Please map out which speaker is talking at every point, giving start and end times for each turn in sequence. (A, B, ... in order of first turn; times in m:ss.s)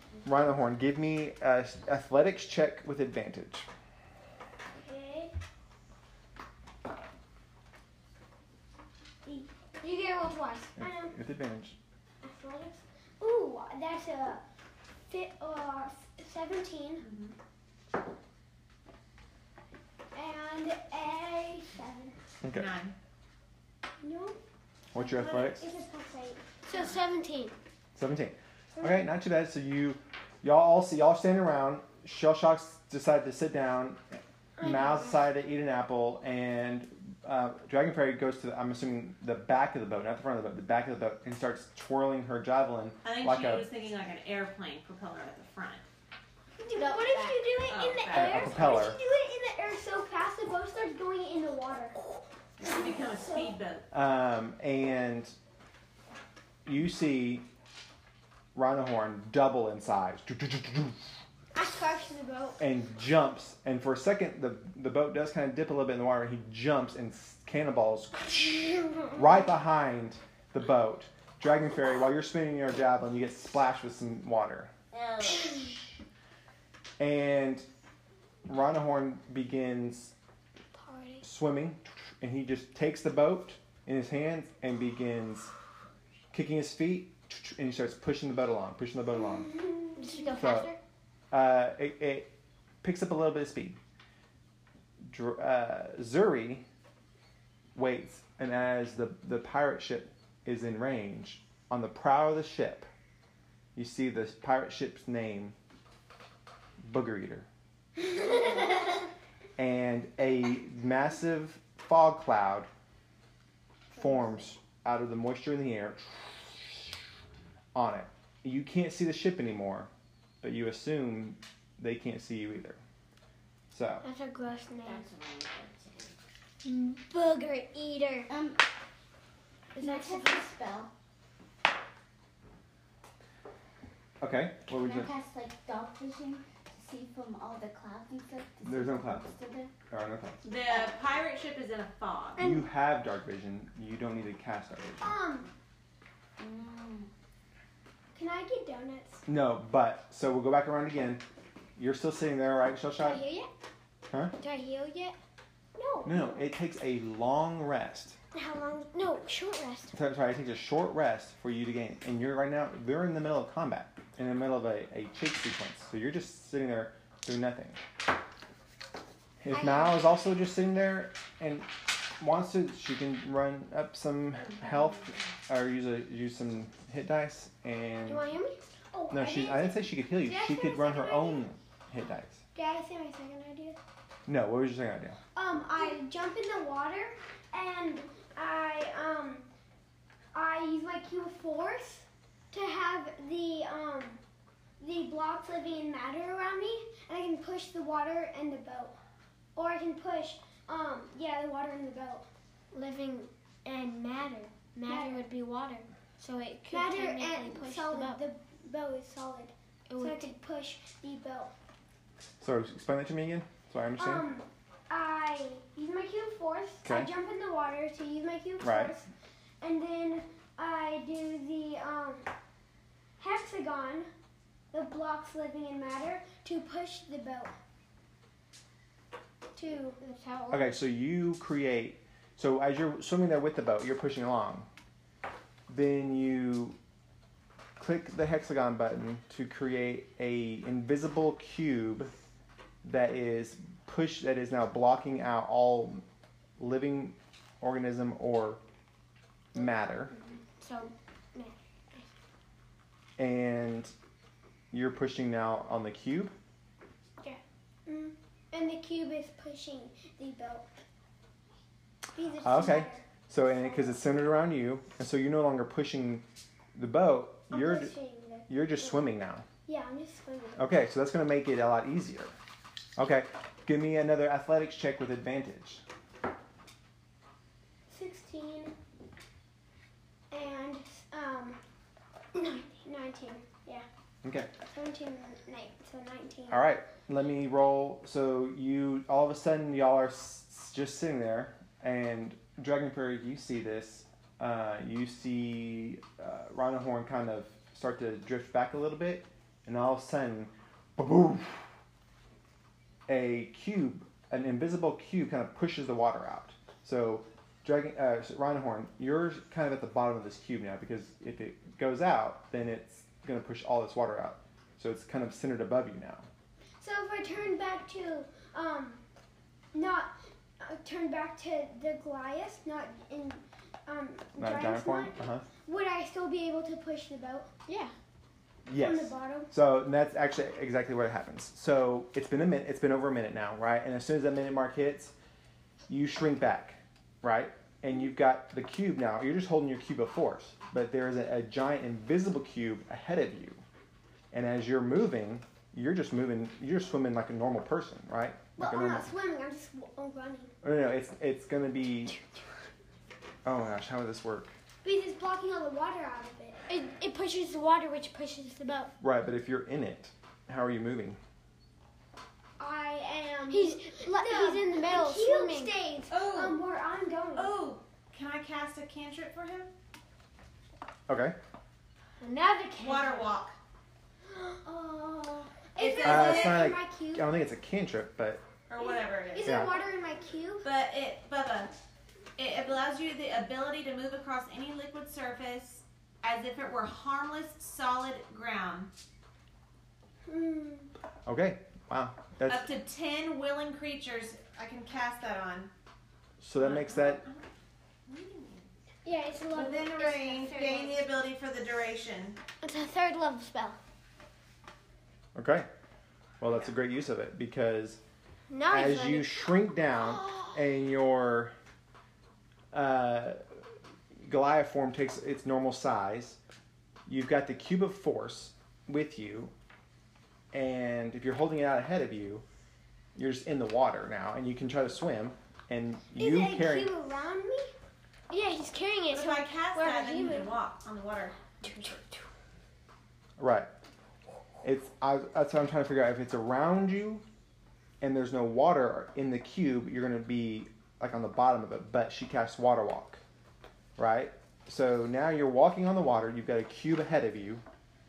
0:00.2-0:03.7 A
0:04.8-0:05.3 B
0:09.8-0:10.8 C
0:10.8-0:11.8 A
0:10.8-0:11.1 B
0:12.2-0:14.4 B
0:15.1-0:17.0 B
0:17.0-0:17.3 D
0:20.1-0:22.2 B
0:22.4-0:22.7 A
0:22.5-0:22.9 D
0:24.0-0:24.4 B
0:24.9-0:25.6 A
0:25.0-0:26.5 B
0:26.7-0:27.5 C
0:27.9-0:43.7 A
0:43.0-0:45.8 D
0:46.6-0:52.0 B
0:46.8-0:47.3 E
0:47.0-0:47.2 C
0:47.6-0:48.8 D
0:48.1-0:49.0 A
0:52.6-0:53.8 D
0:52.6-0:53.5 B
0:53.9-0:55.3 A
0:56.6-0:57.5 A
0:58.5-1:01.0 A
1:01.5-1:02.6 B
1:02.6-1:14.7 A
1:14.9-1:15.6 E
1:17.0-1:17.6 A
1:18.4-1:20.1 A
1:20.8-1:21.2 C
1:21.2-1:25.5 A
1:26.3-1:29.5 A
1:29.4-1:30.3 B
1:30.0-1:30.8 C
1:30.4-1:30.7 A
1:31.3-1:32.3 A
1:32.8-1:33.8 A
1:35.0-1:36.6 A
1:37.7-1:42.9 A
1:43.7-1:45.6 A
1:46.8-1:47.5 A
1:49.6-1:52.7 A
1:53.9-1:57.0 A
1:57.7-1:59.9 A
2:00.4-2:02.8 A
2:03.7-2:04.0 A
2:04.0-2:05.0 C
2:04.8-2:06.1 E
2:06.6-2:08.3 C
2:08.3-2:08.6 E
2:09.8-2:10.4 C
2:09.8-2:10.9 E
2:14.2-2:15.1 A
2:14.7-2:19.7 E
2:18.6-2:19.3 A
2:19.9-2:20.4 A
2:20.4-2:22.4 D
2:20.6-2:20.9 E
2:22.4-2:22.6 B
2:22.4-2:25.1 A
2:25.0-2:25.5 B
2:26.4-2:27.1 E
2:28.1-2:29.2 B
2:29.2-2:31.2 A
2:31.8-2:33.2 A
2:33.0-2:33.5 B
2:34.1-2:34.3 A
2:34.4-2:35.2 C
2:35.8-2:36.4 B
2:36.0-2:38.2 A
2:38.3-2:39.9 C
2:39.9-2:47.8 A
2:49.4-2:58.2 A
2:49.5-2:50.0 B
2:58.1-3:01.4 B
2:59.1-3:02.4 A
3:02.5-3:03.8 B
3:04.2-3:05.2 A
3:05.3-3:09.4 B
3:10.3-3:14.2 B
3:14.8-3:19.0 B
3:19.6-3:22.2 B
3:22.7-3:28.2 C
3:24.8-3:25.2 B
3:26.7-3:31.5 B
3:29.9-3:30.3 C
3:32.4-3:34.3 A
3:34.0-3:39.1 B
3:36.8-3:37.1 A
3:38.6-3:38.9 A
3:39.6-3:42.3 B
3:43.2-3:44.1 B
3:44.7-3:47.5 B
3:49.5-3:50.0 B
3:50.0-3:50.7 C
3:50.5-3:54.7 A
3:55.7-3:56.8 A
3:57.8-4:02.1 A
4:02.8-4:06.0 A
4:06.6-4:08.6 A
4:09.5-4:10.1 A
4:10.1-4:12.1 C
4:13.2-4:13.9 A
4:14.7-4:16.3 A
4:17.8-4:20.7 B
4:22.1-4:24.0 B
4:22.4-4:27.9 A
4:27.5-4:29.0 B
4:28.5-4:29.4 A
4:29.6-4:30.7 B
4:30.6-4:32.3 A
4:33.0-4:35.8 A
4:37.9-4:38.7 B
4:40.3-4:41.6 B
4:42.3-4:43.8 B
4:44.2-4:44.5 A
4:44.6-4:46.7 B
4:46.5-5:01.7 A
5:03.1-5:16.3 A
5:16.8-5:19.0 B
5:19.7-5:27.5 B
5:24.4-5:25.4 A
5:27.7-5:27.9 C
5:28.6-5:35.1 A
5:28.8-5:29.5 B
5:35.9-5:43.6 A
5:44.3-5:49.1 A
5:48.6-5:50.5 B
5:50.6-5:52.2 A
5:53.4-5:54.5 A
5:54.8-5:56.6 B
5:56.7-5:58.9 C
5:59.0-6:01.2 A
6:02.6-6:07.6 B
6:03.5-6:05.7 C
6:06.1-6:06.6 D
6:07.3-6:09.7 D
6:11.1-6:11.4 A
6:12.2-6:13.0 C
6:12.8-6:13.6 D
6:12.8-6:13.2 B
6:14.3-6:17.3 B
6:15.8-6:16.7 D
6:16.0-6:18.4 A
6:18.7-6:19.7 D
6:18.8-6:20.6 B
6:19.4-6:19.8 A
6:20.6-6:21.7 D
6:22.4-6:28.9 D
6:30.2-6:30.9 B
6:31.2-6:32.7 A
6:32.5-6:35.7 D
6:36.4-6:37.2 A
6:36.6-6:37.4 D
6:38.1-6:38.7 D
6:39.0-6:40.9 B
6:39.5-6:42.4 D
6:42.6-6:43.8 C
6:45.3-6:45.7 A
6:46.4-6:48.0 A
6:48.5-6:49.4 C
6:48.7-6:51.5 A
6:50.2-6:50.4 C
6:52.7-6:53.4 A
6:54.2-6:56.4 A
6:57.1-6:59.5 A
7:00.5-7:02.4 A
7:03.1-7:06.9 A
7:06.1-7:07.7 B
7:08.3-7:10.5 C
7:09.1-7:11.9 D
7:11.6-7:12.2 C
7:13.4-7:13.7 A
7:14.6-7:17.2 A
7:18.0-7:23.2 A
7:24.0-7:27.6 A